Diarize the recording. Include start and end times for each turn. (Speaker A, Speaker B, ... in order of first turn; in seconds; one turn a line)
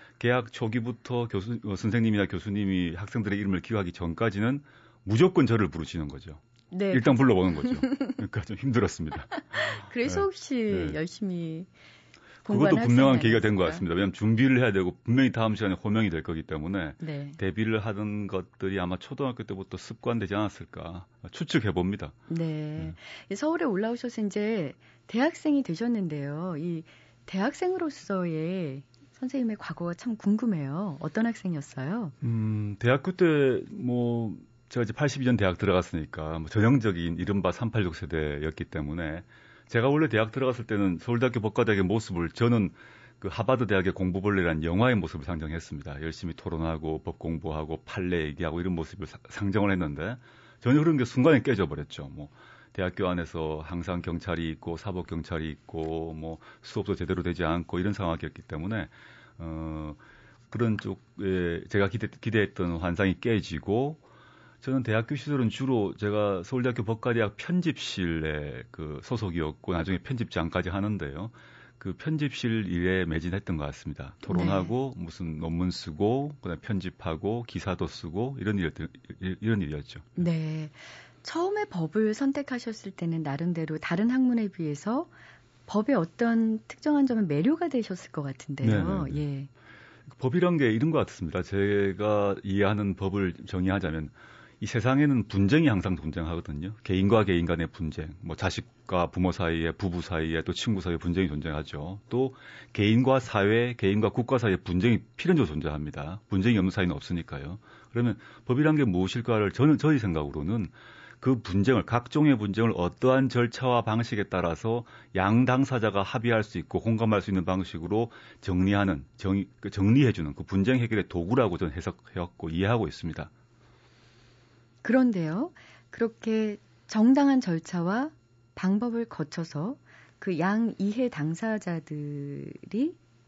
Speaker A: 0.2-6.4
Speaker B: 6.7-8.2
Speaker A: 6.9-11.0
Speaker B: 9.3-11.7
Speaker B: 12.4-13.8
Speaker A: 12.5-22.2
Speaker B: 17.0-17.4
Speaker B: 22.3-32.1
Speaker A: 32.2-60.0
Speaker A: 60.5-64.0
Speaker A: 64.6-80.2
Speaker B: 74.3-74.7
Speaker B: 80.2-85.1
Speaker B: 85.7-89.5
Speaker A: 88.6-89.2
Speaker A: 90.1-123.3
Speaker B: 124.8-133.0